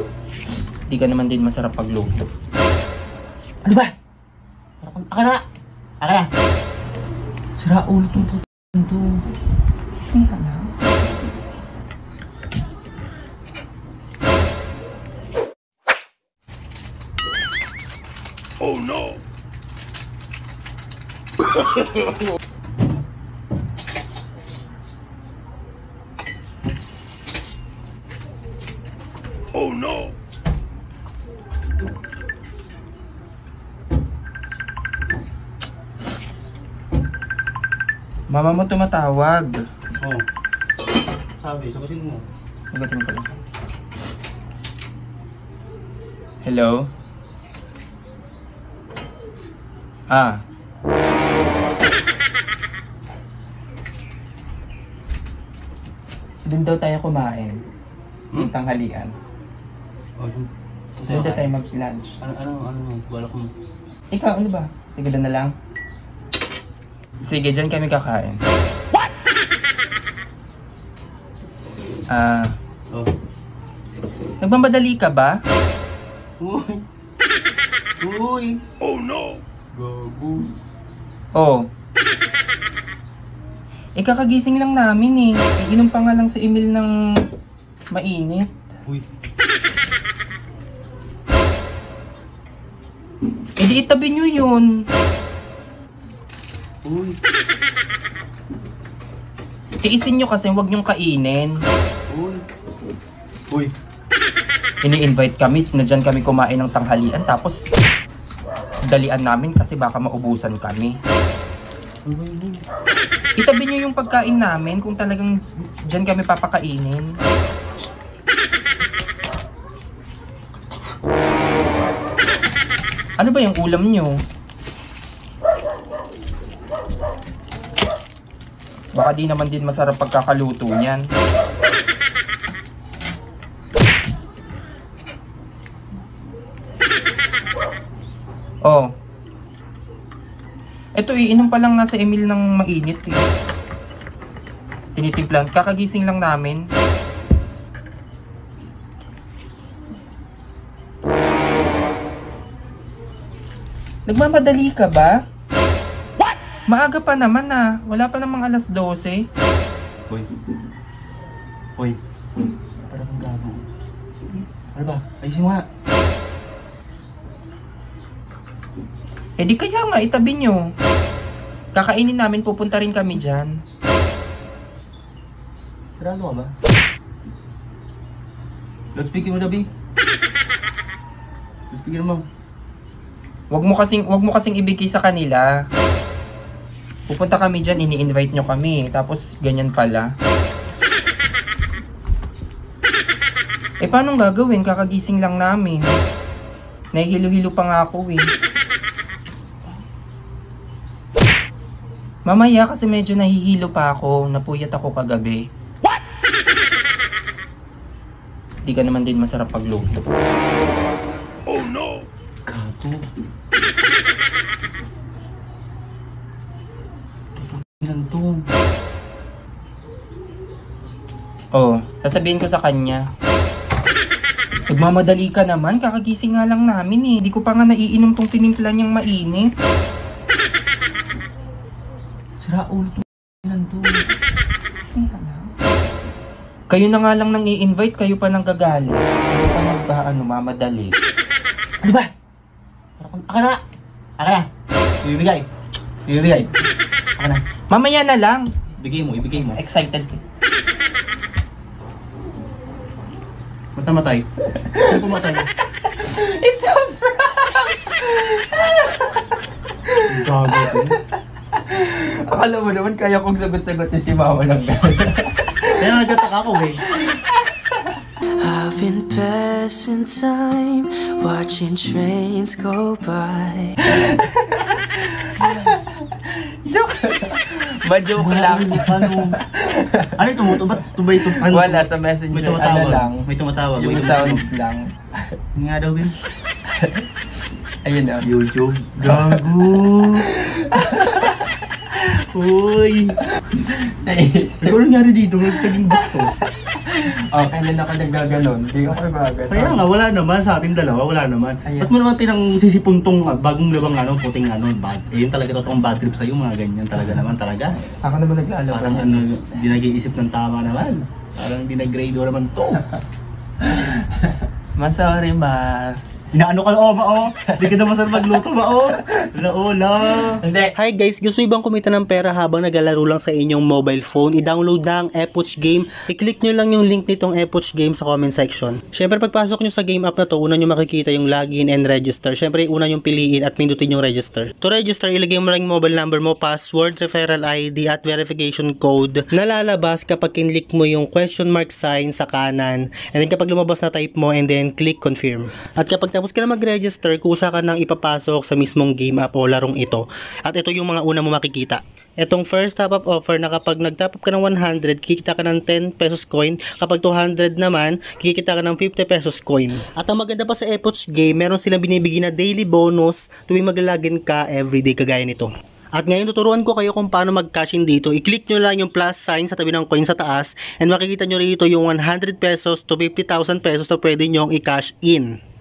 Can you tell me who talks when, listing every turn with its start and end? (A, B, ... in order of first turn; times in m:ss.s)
0:00.9-0:02.2 A
0:03.6-0:03.9 B
0:04.8-0:05.4 B
0:06.0-0:06.3 B
0:07.6-0:09.2 B
0:10.1-0:11.1 A
0:38.3-0:39.6 A
0:41.4-0:42.2 B
0:42.7-0:43.4 A
0:46.4-0:46.9 A
0:50.1-0:50.4 A
0:56.4-0:57.6 A
0:58.3-0:59.1 A
1:00.2-1:00.5 B
1:01.0-1:01.5 B
1:01.1-1:02.1 A
1:02.2-1:03.5 B
1:04.1-1:05.5 A
1:07.2-1:08.4 A
1:12.1-1:12.5 A
1:14.4-1:15.4 A
1:16.4-1:16.8 B
1:18.0-1:18.6 B
1:19.7-1:20.5 B
1:21.4-1:21.7 A
1:24.0-1:26.9 A
1:27.9-1:28.5 A
1:33.6-1:34.7 A
1:36.8-1:37.2 B
1:39.8-1:41.6 A
1:42.1-1:42.4 B
1:44.8-1:47.6 A
1:48.9-1:51.0 A
1:52.1-1:52.6 B
1:53.4-1:57.2 A
2:03.2-2:04.2 A
2:08.9-2:11.1 A
2:18.6-2:18.9 A
2:21.0-2:23.2 A
2:25.0-2:26.7 A
2:34.1-2:35.2 A
2:36.7-2:39.3 A
2:42.8-2:43.6 B
2:44.4-2:45.6 B
2:49.4-2:50.7 A
2:51.8-2:53.6 A
2:56.0-2:56.5 B
2:59.0-2:59.7 B
3:01.7-3:02.2 B
3:03.5-3:05.6 A
3:07.1-3:10.1 A
3:13.8-3:15.9 A
3:16.9-3:18.3 A
3:22.3-3:25.4 A
3:28.6-3:30.0 A
3:32.5-3:33.0 B
3:37.4-3:38.5 B
3:41.5-3:43.0 A
3:44.7-3:49.5 A
3:52.4-3:54.0 B
3:54.9-3:55.5 A
3:56.7-4:01.0 A
4:01.8-4:02.1 B
4:03.0-4:03.6 B
4:04.2-4:04.5 B
4:05.0-4:05.5 B
4:06.1-4:06.5 B
4:07.2-4:07.4 B
4:07.7-4:08.5 A
4:08.8-4:09.6 B
4:09.3-4:10.2 A
4:13.8-4:14.3 B
4:14.6-4:15.1 A
4:14.8-4:15.5 B
4:15.8-4:19.2 A
4:19.8-4:21.0 A
4:20.1-4:20.9 B
4:21.5-4:26.0 A
4:25.8-4:26.8 B
4:26.9-4:27.4 A
4:28.4-4:33.8 C
4:33.8-4:45.3 A
4:38.2-4:39.4 B
4:40.2-4:44.5 B
4:45.6-4:46.1 B
4:46.7-4:47.1 A
4:47.8-4:48.3 A
4:48.2-4:50.3 B
4:49.0-4:51.6 A
4:51.9-4:53.2 B
4:53.5-4:54.8 A
4:54.6-4:56.3 B
4:55.4-4:59.9 A
4:59.5-5:07.7 B
5:01.6-5:01.9 A
5:07.8-5:09.2 A
5:08.7-5:12.8 B
5:13.6-5:16.0 A
5:16.3-5:20.4 B
5:17.5-5:18.2 A
5:19.0-5:19.2 A
5:20.1-5:20.8 A
5:20.8-6:15.3 D